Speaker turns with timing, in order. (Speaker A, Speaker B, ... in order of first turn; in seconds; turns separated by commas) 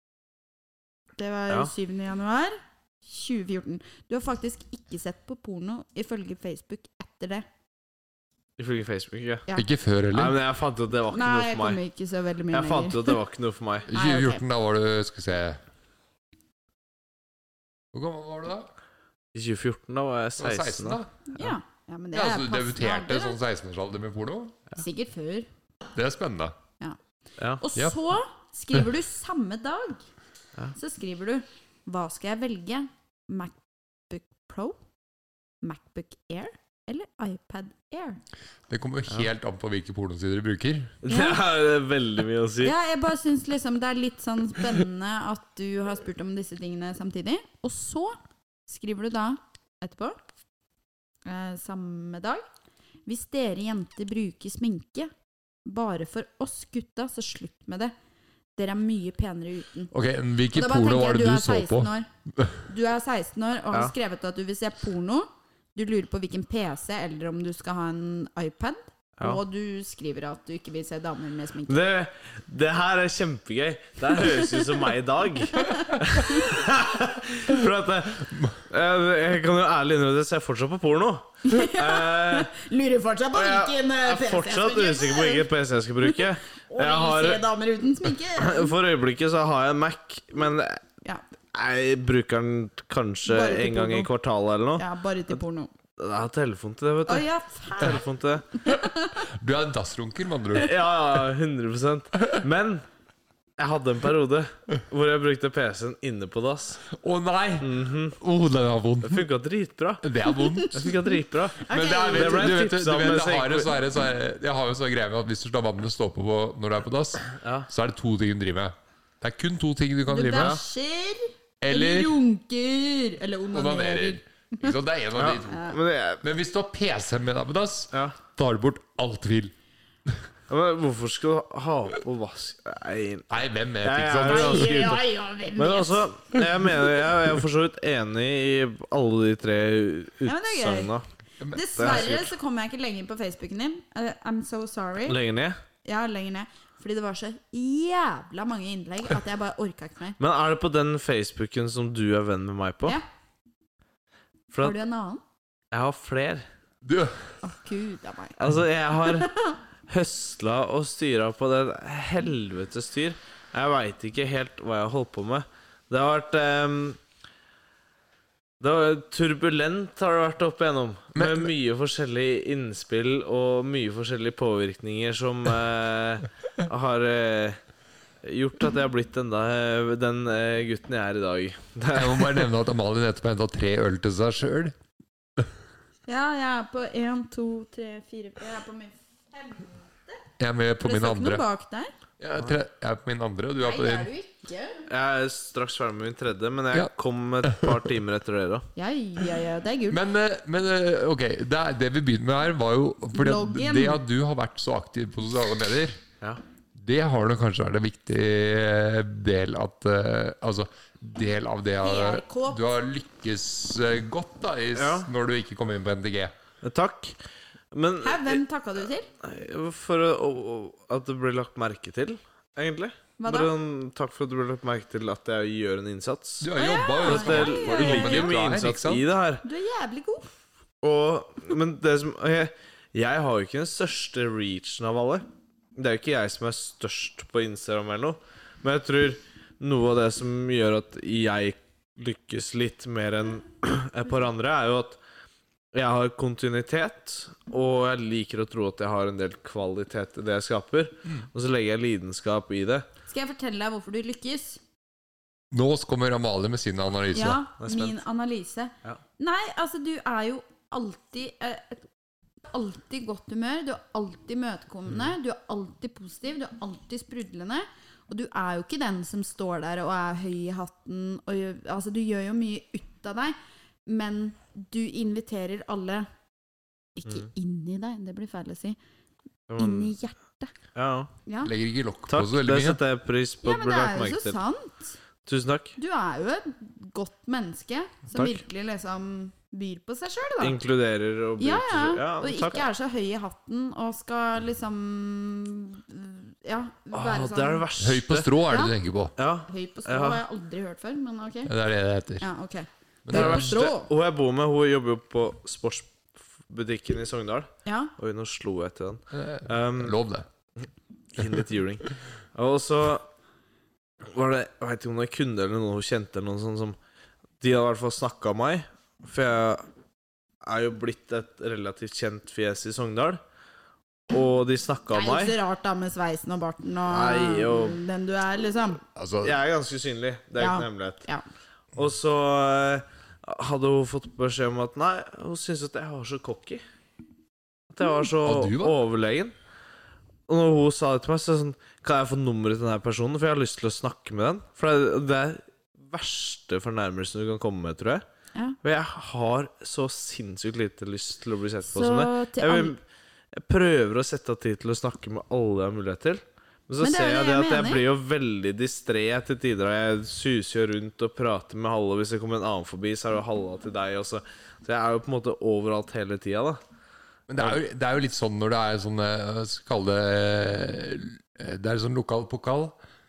Speaker A: 1.2-7.5, Speaker B: 8.6-9.5, Speaker C: 9.6-10.4, Speaker B: 10.1-11.8, Speaker A: 11.1-13.2, Speaker B: 12.5-13.9, Speaker C: 13.9-15.6, Speaker A: 13.9-14.4, Speaker C: 17.9-18.7, Speaker B: 19.4-21.0, Speaker C: 20.4-21.1, Speaker A: 21.3-23.4, Speaker C: 22.1-24.6, Speaker A: 24.8-25.5, Speaker C: 25.9-26.6, Speaker A: 27.6-30.0, Speaker A: 30.8-34.8, Speaker A: 35.6-38.2, Speaker C: 38.7-41.0, Speaker B: 41.0-42.7, Speaker A: 41.1-41.4, Speaker A: 42.6-50.2, Speaker A: 51.2-52.4, Speaker A: 53.1-55.1, Speaker A: 55.6-57.9, Speaker A: 58.6-59.9, Speaker C: 59.9-62.5, Speaker A: 60.5-62.1, Speaker A: 62.7-71.8, Speaker B: 71.7-82.5, Speaker A: 75.5-76.5, Speaker A: 81.5-85.5, Speaker B: 83.3-87.5, Speaker A: 86.0-88.7, Speaker B: 88.3-90.8, Speaker B: 91.5-94.8, Speaker A: 93.3-94.1, Speaker A: 94.8-95.7, Speaker B: 96.0-98.5, Speaker A: 97.1-98.0, Speaker A: 98.6-99.2, Speaker C: 99.2-100.8, Speaker B: 100.6-102.8, Speaker B: 103.6-106.8, Speaker C: 106.9-109.2, Speaker B: 107.6-108.2, Speaker B: 109.0-110.0, Speaker C: 110.0-110.9, Speaker A: 110.3-112.6, Speaker B: 110.7-113.8, Speaker C: 111.7-120.6, Speaker B: 117.4-117.7, Speaker A: 120.1-124.7, Speaker C: 121.6-122.1, Speaker C: 123.5-125.7, Speaker B: 125.2-126.2, Speaker A: 125.5-125.8, Speaker C: 126.2-129.5, Speaker B: 130.5-133.3, Speaker C: 133.3-135.0, Speaker B: 133.8-135.0, Speaker A: 134.2-136.1, Speaker B: 135.6-141.1, Speaker A: 140.2-140.9, Speaker C: 141.4-142.2, Speaker A: 141.5-145.2, Speaker B: 141.8-142.3, Speaker B: 145.1-145.6, Speaker A: 145.8-150.2, Speaker B: 150.2-153.0, Speaker B: 154.5-154.8, Speaker A: 154.6-155.2, Speaker B: 155.7-156.4, Speaker C: 156.8-157.3, Speaker A: 157.4-158.4, Speaker B: 158.4-159.3, Speaker A: 159.0-159.6, Speaker B: 159.9-167.0, Speaker B: 168.6-177.6, Speaker C: 171.2-171.5, Speaker B: 178.2-182.5, Speaker C: 181.9-184.8, Speaker A: 186.1-190.2, Speaker C: 190.4-191.4, Speaker A: 190.8-191.9, Speaker C: 192.2-194.1, Speaker A: 193.6-194.8, Speaker B: 194.9-198.7, Speaker C: 197.4-197.8, Speaker A: 198.8-200.0, Speaker C: 199.9-206.0, Speaker A: 203.1-204.0, Speaker C: 206.8-216.3, Speaker A: 211.8-212.6, Speaker B: 214.8-215.1, Speaker B: 216.6-217.2, Speaker B: 217.7-218.4, Speaker A: 218.0-219.1, Speaker B: 219.2-226.5, Speaker A: 223.2-223.5, Speaker C: 226.4-229.1, Speaker A: 226.6-228.4, Speaker B: 227.0-229.4, Speaker A: 229.4-230.3, Speaker B: 230.8-245.0, Speaker B: 245.7-252.9, Speaker A: 253.1-254.6, Speaker C: 255.5-257.4, Speaker A: 257.1-261.9, Speaker B: 257.6-258.0, Speaker A: 262.5-273.4, Speaker A: 273.9-276.1, Speaker A: 277.0-278.8, Speaker B: 279.5-279.9, Speaker A: 279.6-280.5, Speaker B: 280.8-281.1, Speaker A: 281.3-281.5, Speaker C: 281.4-282.8, Speaker B: 282.1-284.4, Speaker A: 283.4-284.9, Speaker B: 285.3-285.8, Speaker A: 285.8-290.6, Speaker B: 288.1-288.4, Speaker B: 290.4-292.7, Speaker A: 291.4-297.7, Speaker B: 296.9-298.3, Speaker C: 297.8-299.1, Speaker A: 298.5-298.7, Speaker B: 299.2-300.2, Speaker A: 299.5-301.5, Speaker C: 301.5-302.3, Speaker A: 302.2-303.9, Speaker C: 303.1-303.6, Speaker B: 303.1-310.0, Speaker A: 307.6-307.9, Speaker C: 309.1-310.3, Speaker B: 311.1-313.1, Speaker B: 314.1-316.8, Speaker B: 317.4-319.7, Speaker B: 320.4-323.2, Speaker B: 324.1-325.4, Speaker A: 324.9-328.8, Speaker B: 326.9-327.8, Speaker C: 328.9-329.4, Speaker B: 329.2-331.1, Speaker A: 330.4-331.2, Speaker B: 331.8-336.6, Speaker B: 337.7-339.3, Speaker C: 338.2-338.8, Speaker B: 340.3-348.0, Speaker B: 348.6-352.8, Speaker A: 351.7-352.8, Speaker B: 353.4-366.6, Speaker A: 356.8-357.9, Speaker C: 367.3-372.8